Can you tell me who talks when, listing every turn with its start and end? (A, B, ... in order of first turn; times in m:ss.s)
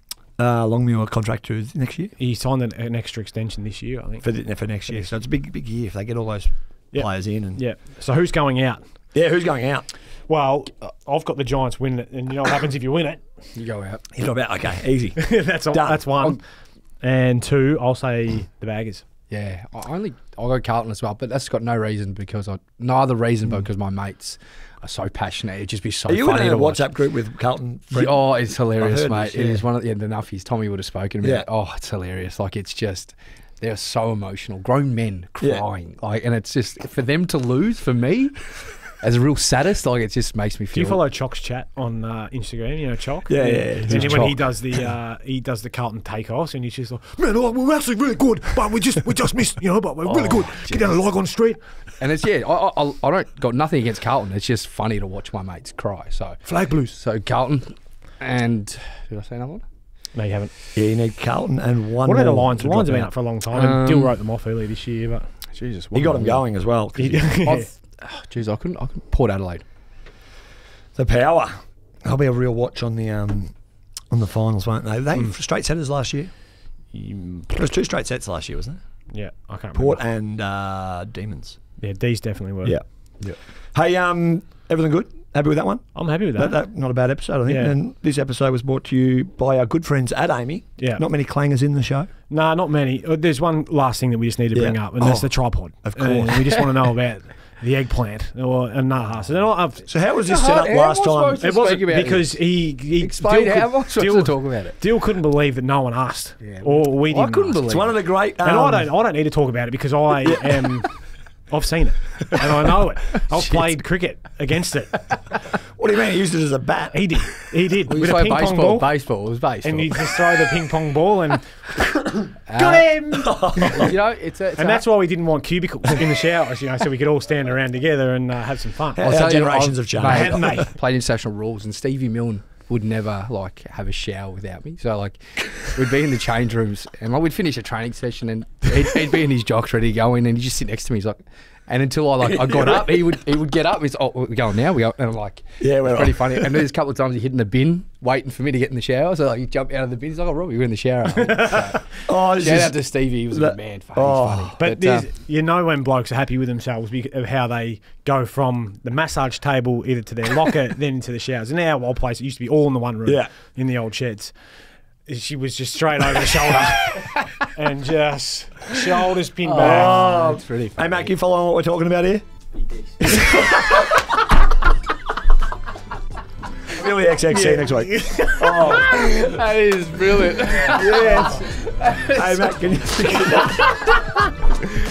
0:00.4-0:02.1 A
0:02.2-0:04.3 B
0:04.2-0:07.6 A
0:06.9-0:08.8 B
0:09.1-0:09.9 A
0:10.3-0:13.2 B
0:13.5-0:14.0 C
0:14.1-0:16.4 A
0:15.2-0:19.0 B
0:19.3-0:26.8 C
0:26.1-0:29.6 A
0:27.9-0:41.0 C
0:40.7-0:51.6 B
0:43.3-0:44.2 A
0:43.9-0:44.4 C
0:50.0-0:51.0 C
0:52.0-0:59.6 C
0:56.4-0:56.9 B
1:00.1-1:00.5 B
1:00.7-1:03.1 A
1:02.0-1:05.3 B
1:03.5-1:04.2 C
1:05.5-1:06.4 C
1:05.9-1:07.3 A
1:07.0-1:07.7 B
1:07.4-1:09.6 C
1:10.9-1:13.5 A
1:14.1-1:16.3 A
1:16.9-1:17.6 B
1:17.5-1:19.0 A
1:19.1-1:20.0 B
1:19.7-1:21.6 A
1:21.8-1:22.9 B
1:22.6-1:32.1 A
1:25.9-1:27.7 B
1:30.8-1:31.0 B
1:32.3-1:39.8 B
1:34.5-1:36.6 A
1:39.8-1:41.4 A
1:40.1-1:44.8 C
1:41.4-1:47.7 B
1:46.4-1:48.0 C
1:47.7-1:48.9 A
1:48.4-1:55.3 B
1:50.2-1:50.6 A
1:55.8-1:57.3 A
1:56.9-1:59.1 B
1:57.9-2:00.2 C
1:59.6-2:03.9 B
2:02.5-2:02.9 C
2:03.2-2:03.9 A
2:03.7-2:04.8 C
2:04.6-2:10.7 B
2:09.0-2:10.7 A
2:09.0-2:35.1 C
2:22.3-2:22.9 A
2:25.6-2:26.6 A
2:32.0-2:34.5 A
2:34.6-2:44.4 B
2:45.0-2:50.2 B
2:49.4-2:51.1 C
2:49.6-2:52.2 A
2:53.0-2:54.1 A
2:56.7-2:59.1 A
2:57.3-2:58.8 B
2:58.7-3:02.6 C
3:00.7-3:01.5 B
3:02.1-3:03.8 A